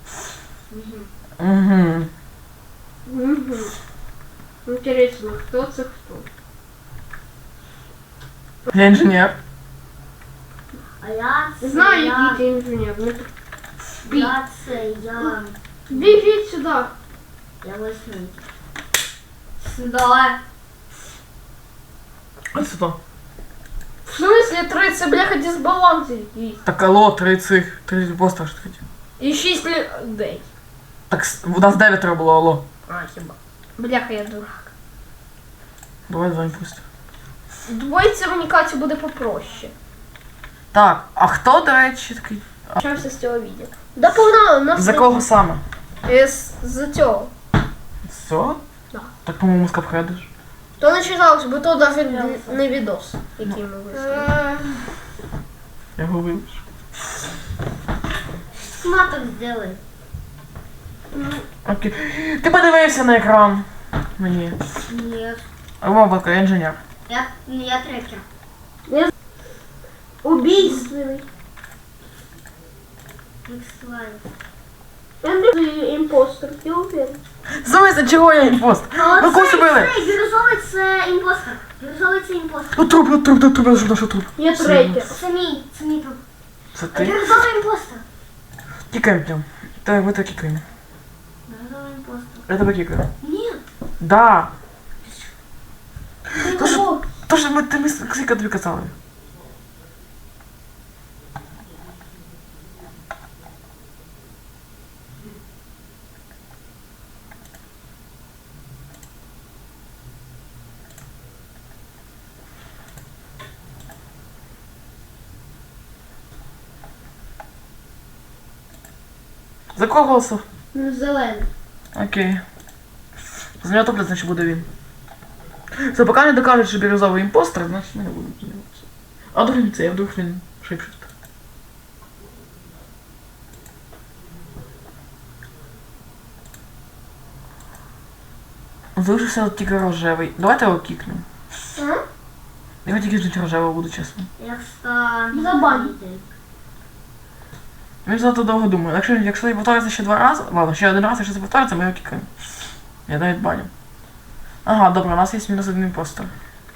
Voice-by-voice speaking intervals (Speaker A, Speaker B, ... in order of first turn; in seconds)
Speaker A: 0.7-1.1, 11.0-12.4, 14.0-16.3, 17.6-18.4, 19.6-20.4, 51.9-52.7, 53.9-54.9, 58.5-59.8, 64.9-65.5, 67.1-68.2, 70.5-70.9, 73.5-74.2, 79.0-82.8, 85.1-86.2, 86.9-88.0, 91.5-92.5, 93.2-93.6, 95.0-95.3, 144.4-146.3
Speaker B: 1.4-2.1, 8.7-9.4, 22.5-23.0, 26.6-28.8, 31.1-32.6, 36.1-36.8, 40.7-42.8, 44.8-45.6, 48.1-48.6, 49.2-50.3, 56.0-56.6, 61.6-64.6, 65.8-66.8, 77.6-80.1, 82.8-85.1, 86.8-87.2, 88.9-90.6, 92.5-93.1, 94.0-94.5, 96.4-98.9, 119.8-120.4, 121.9-122.4, 123.6-124.7, 125.8-131.1, 139.0-141.2, 142.8-144.3, 148.1-152.3, 153.1-153.7, 154.7-156.3
Speaker C: 3.1-3.8, 4.7-6.2, 11.6-13.3, 14.1-14.3, 15.9-16.9, 24.1-26.6, 29.2-30.5, 32.9-34.7, 37.7-39.7, 42.8-45.2, 46.0-47.3, 50.8-54.3, 61.1-61.4, 70.2-71.2, 75.2-77.2, 84.4-85.2, 96.4-97.0, 120.7-121.5, 141.8-142.0, 145.3-145.9